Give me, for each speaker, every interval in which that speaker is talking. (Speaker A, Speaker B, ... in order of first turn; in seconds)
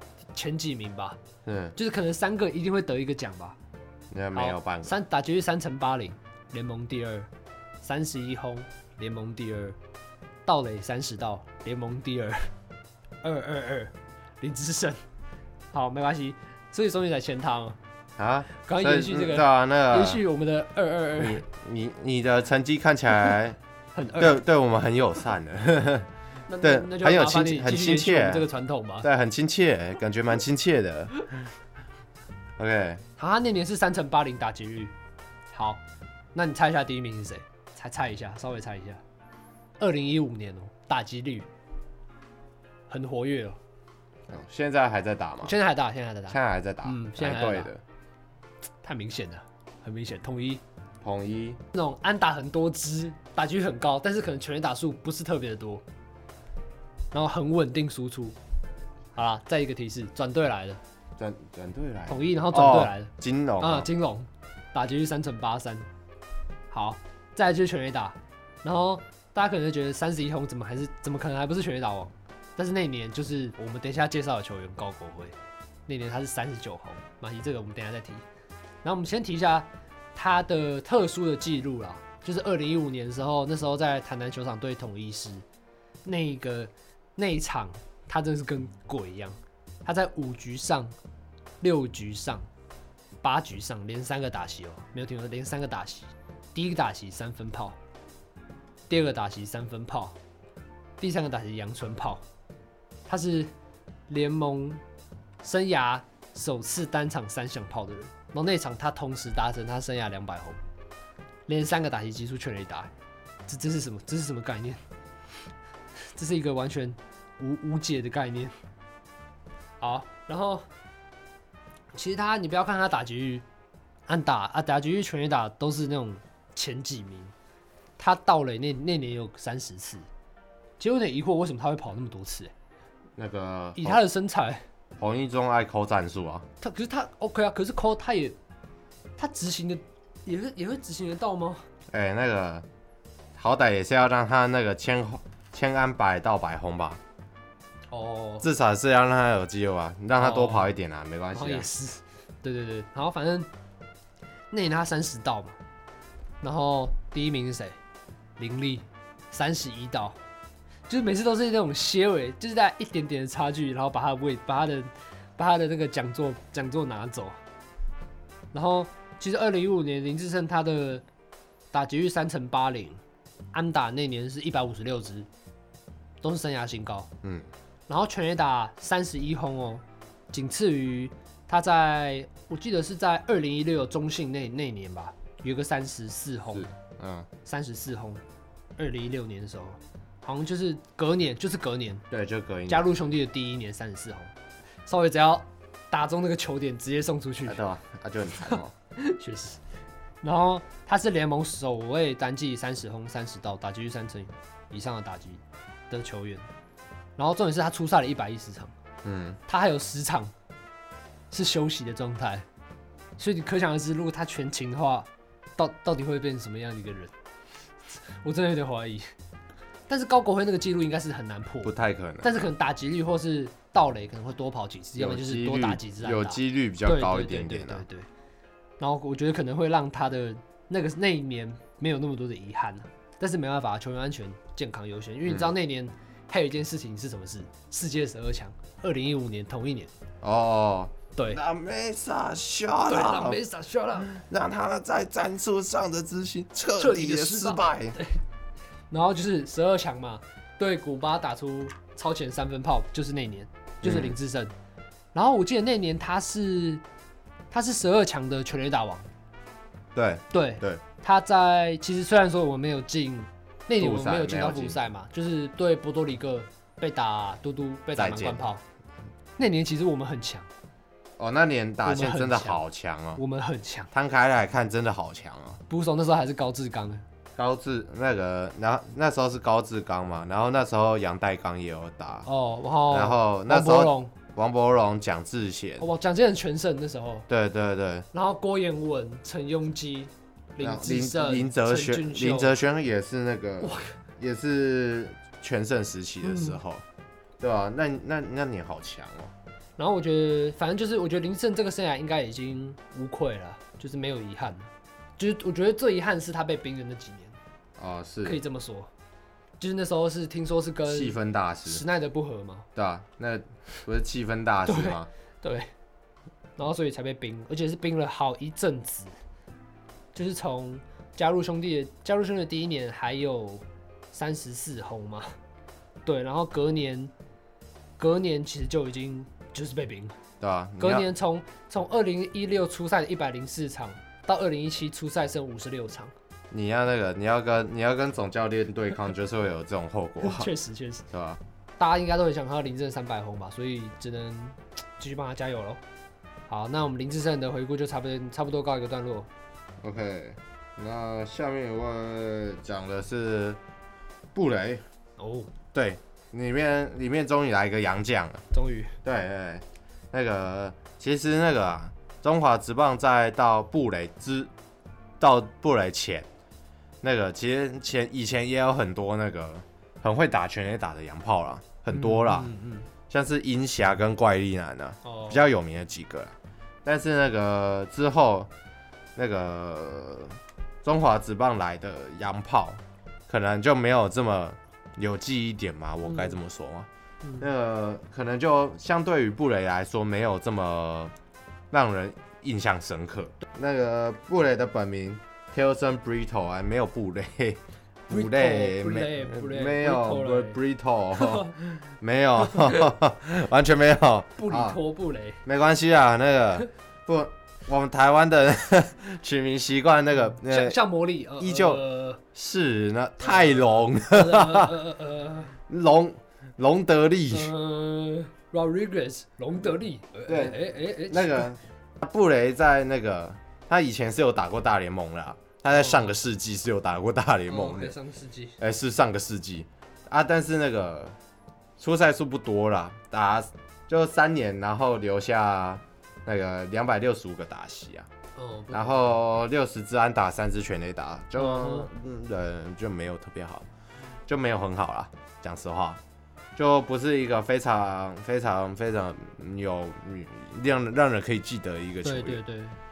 Speaker A: 0.3-1.2, 1.8-3.6, 4.3-7.3, 7.8-9.8, 10.4-12.5, 13.2-15.0, 15.7-17.8, 18.6-21.4, 23.9-24.4, 26.5-29.1, 33.2-34.9, 35.5-35.8, 36.3-39.0, 39.8-41.5, 42.9-43.6, 45.4-47.7, 48.8-50.6, 51.7-55.8, 57.1-58.4, 59.1-60.8, 62.1-65.9, 66.7-75.3, 75.9-78.2, 78.8-85.4, 86.0-90.9, 91.6-92.5, 93.2-97.8, 98.9-100.2, 101.0-102.2, 103.0-103.5, 104.1-104.8, 105.4-110.6, 111.5-112.9, 113.5-114.8, 116.1-118.5, 119.8-120.7, 121.9-123.4, 124.1-127.3, 128.0-130.1, 130.8-132.5, 133.8-134.6, 136.6-138.3, 139.2-141.7, 147.9-148.5, 150.2-150.7, 151.3-153.5, 154.5-155.6, 156.4-157.8, 158.4-160.2, 160.9-167.4, 168.5-171.0, 171.7-173.0, 173.5-175.3, 176.2-177.1, 177.9-186.7, 187.4-188.2, 188.8-192.0, 192.7-194.3, 194.8-197.6, 198.5-199.6, 200.2-206.5, 207.2-208.7, 209.5-210.3, 211.3-212.4, 213.2-217.1, 218.2-219.1, 219.9-228.1, 228.8-239.9, 241.2-241.4, 242.9-244.1, 246.8-248.2, 248.9-254.5, 255.1-256.8, 257.5-259.1, 260.3-268.6, 269.4-270.5, 271.8-272.6, 273.2-273.9, 275.7-277.0, 282.2-284.1, 285.8-287.2, 288.1-292.5, 293.6-293.9, 296.2-296.6, 299.8-307.4, 308.2-308.9, 309.6-312.7, 314.6-315.7, 316.6-319.1, 320.1-325.3, 326.0-327.1, 328.0-330.1, 330.8-336.1, 340.2-341.1, 341.8-345.8, 346.5-349.3, 355.2-355.5, 358.5-358.9, 371.9-372.9, 375.0-375.4, 386.1-386.3, 398.1-400.6, 401.1-401.8, 402.4-402.9, 404.4-405.4, 410.4-412.2, 413.2-415.5, 417.3-421.5, 425.7-426.1, 427.5-428.6, 438.4-439.1, 441.4-441.9, 452.0-452.8
Speaker B: 1.4-1.7, 4.1-4.9, 18.2-20.2, 21.2-23.6, 24.2-26.1, 26.6-28.5, 29.0-31.2, 32.6-33.0, 44.3-45.5, 46.3-47.8, 51.0-51.6, 61.2-63.9, 133.2-134.0, 135.0-136.4, 141.9-142.7, 143.3-147.0, 148.4-151.7, 177.2-177.5, 186.5-187.3, 192.1-192.9, 197.4-198.7, 209.0-209.4, 221.6-222.3, 225.0-227.8, 235.3-235.5, 240.2-243.4, 244.0-248.0, 253.8-254.2, 259.9-260.8, 263.8-264.8, 267.9-268.4, 271.2-273.2, 273.9-275.6, 277.4-282.3, 282.9-285.9, 287.3-288.1, 290.6-296.8, 297.4-299.3, 307.8-308.4, 310.9-311.8, 312.8-315.1, 330.4-331.1, 336.5-340.5, 341.1-341.4, 349.8-353.6, 354.3-354.8, 355.7-358.4, 359.0-364.5, 365.2-366.3, 367.0-372.5, 373.1-376.3, 376.8-378.5, 379.1-386.9, 387.4-391.1, 391.7-401.5, 402.0-404.8, 405.4-410.8, 411.4-411.8, 412.3-414.8, 415.7-417.5, 420.3-427.9, 428.6-431.1, 431.8-438.1, 438.7-443.6, 444.3-446.0, 446.6-452.4